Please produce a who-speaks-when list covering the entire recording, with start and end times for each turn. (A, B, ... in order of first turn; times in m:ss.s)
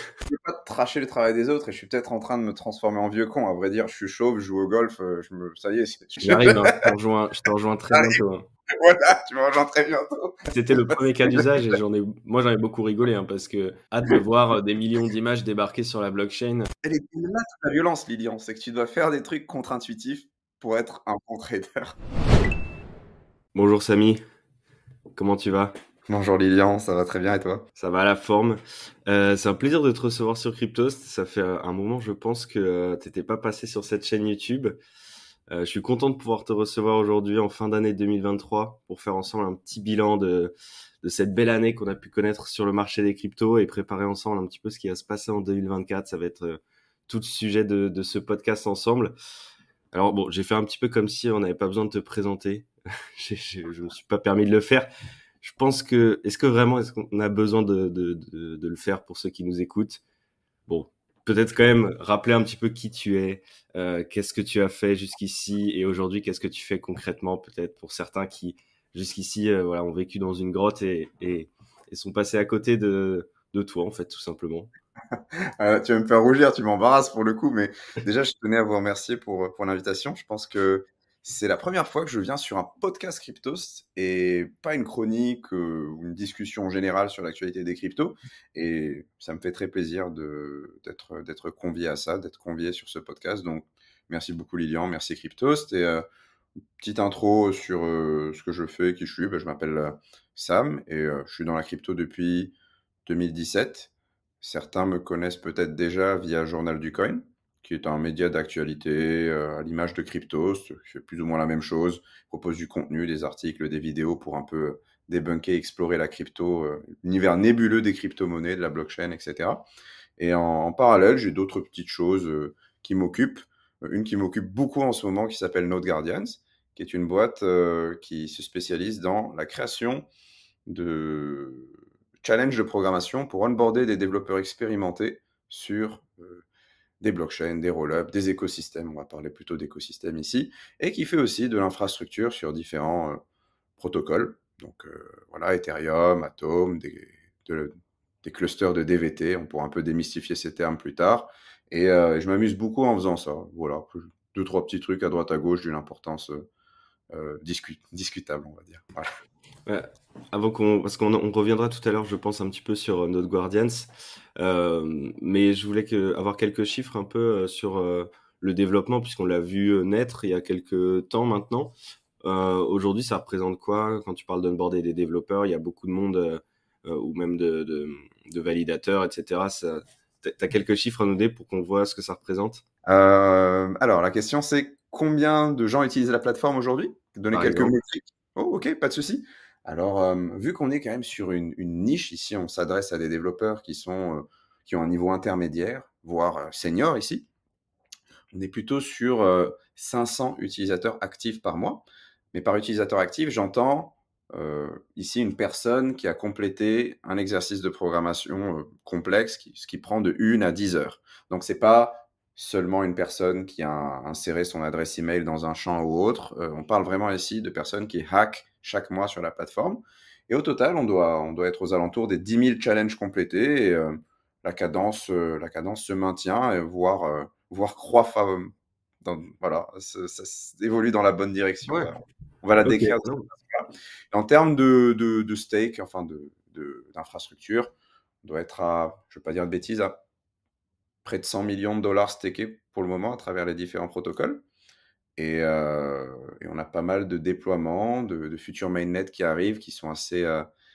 0:00.2-0:06.8 A
0:06.2-0:08.4 B
0:07.9-0:08.2 A
0:08.8-0:11.4 A
0:10.5-0:16.7 B
0:16.8-0:22.0 A
0:23.5-0:24.2 B
0:25.1-0:25.7 B
0:26.1-0:27.7 A
0:27.8-0:34.8 B
0:35.5-0:49.1 B
0:49.9-0:54.9 B
0:55.4-1:00.0 B
1:00.7-1:14.7 B
1:15.6-1:36.0 A
1:36.8-1:42.5 A
1:43.0-1:43.9 A
1:44.4-1:59.6 A
2:00.2-2:10.1 A
2:10.7-2:16.4 A
2:17.0-2:23.2 A
2:23.8-2:27.7 A
2:28.2-2:36.5 A
2:37.1-2:39.1 A
2:39.6-3:02.6 B
3:02.8-3:17.3 A
3:07.3-3:07.7 B
3:18.3-3:48.5 A
3:49.0-3:57.7 A
3:52.5-3:53.3 B
3:58.2-4:00.0 A
4:01.0-4:04.4 A
4:05.2-4:10.5 A